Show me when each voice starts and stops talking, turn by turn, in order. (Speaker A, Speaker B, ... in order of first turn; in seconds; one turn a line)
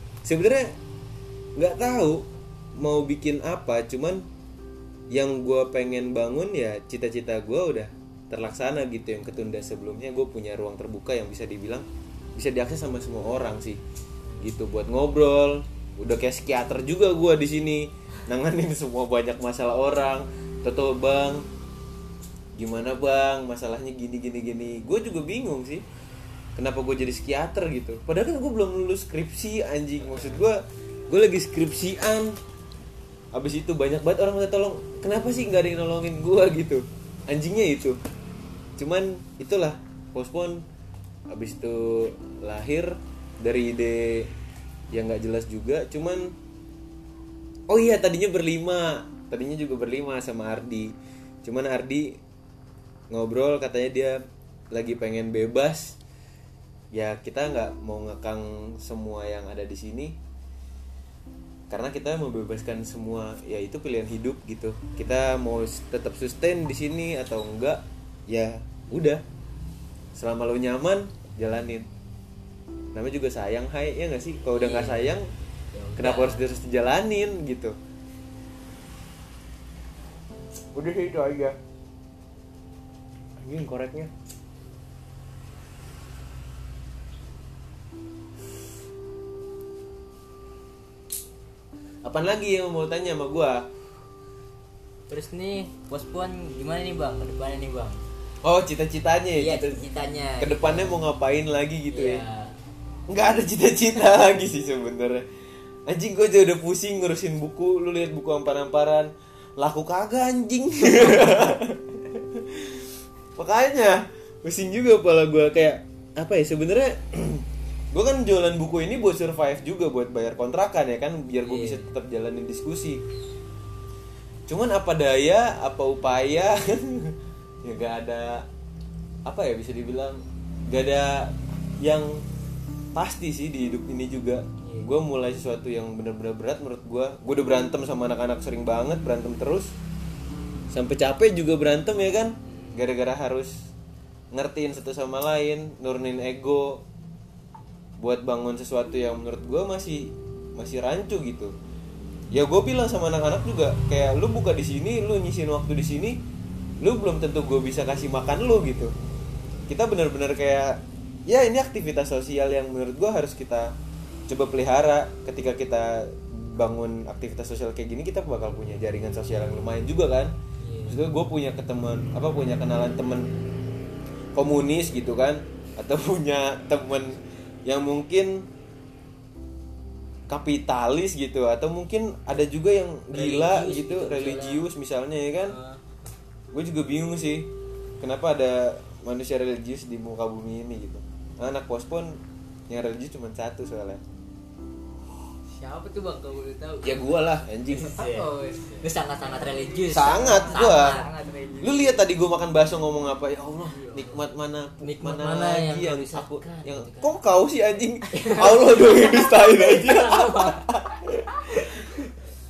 Speaker A: 0.2-0.7
Speaker A: 1.6-2.3
Speaker A: 2.8-4.2
Speaker A: 5.1-13.8
Speaker A: 14.4-21.4
Speaker A: 22.6-25.8
Speaker A: 26.6-32.4
Speaker A: 33.3-38.0
Speaker A: 38.8-40.6
Speaker A: 41.3-44.3
Speaker A: 44.9-46.4
Speaker A: 47.7-52.2
Speaker A: 53.1-54.2
Speaker A: 54.7-56.0
Speaker A: 56.9-60.2
Speaker A: 61.7-69.2
Speaker A: 70.2-71.9
Speaker A: 72.9-75.3
Speaker B: 74.5-75.1
Speaker B: 75.7-76.6
Speaker A: 76.0-77.8
Speaker A: 80.7-81.5
Speaker A: 83.4-84.1
Speaker A: 92.0-93.7
Speaker B: 95.1-98.0
Speaker A: 98.4-99.9
Speaker B: 99.3-101.0
Speaker A: 100.4-102.2
Speaker B: 101.9-102.5
Speaker A: 103.1-105.2
Speaker A: 105.9-123.0
Speaker B: 121.4-121.9
Speaker A: 124.5-128.4
Speaker A: 129.2-132.2
Speaker A: 132.9-139.7
Speaker B: 134.6-134.9
Speaker A: 140.7-143.5
Speaker B: 142.4-142.9
Speaker A: 144.3-146.8
Speaker A: 148.0-151.5
Speaker A: 152.3-156.2
Speaker A: 156.8-158.9
Speaker A: 159.7-163.7
Speaker A: 164.3-170.3
Speaker B: 170.6-171.0
Speaker A: 170.9-173.3
Speaker A: 174.3-178.5
Speaker A: 180.3-185.6
Speaker B: 183.1-184.6
Speaker B: 185.5-185.8
Speaker A: 186.5-187.5
Speaker A: 188.0-192.2
Speaker A: 192.7-194.0
Speaker C: 195.5-197.2
Speaker A: 196.8-198.0
Speaker B: 197.7-201.1
Speaker C: 197.9-202.0
Speaker A: 199.9-201.0
Speaker A: 201.6-212.1
Speaker C: 203.7-204.1
Speaker B: 204.8-207.1
Speaker B: 208.1-210.7
Speaker B: 211.5-211.8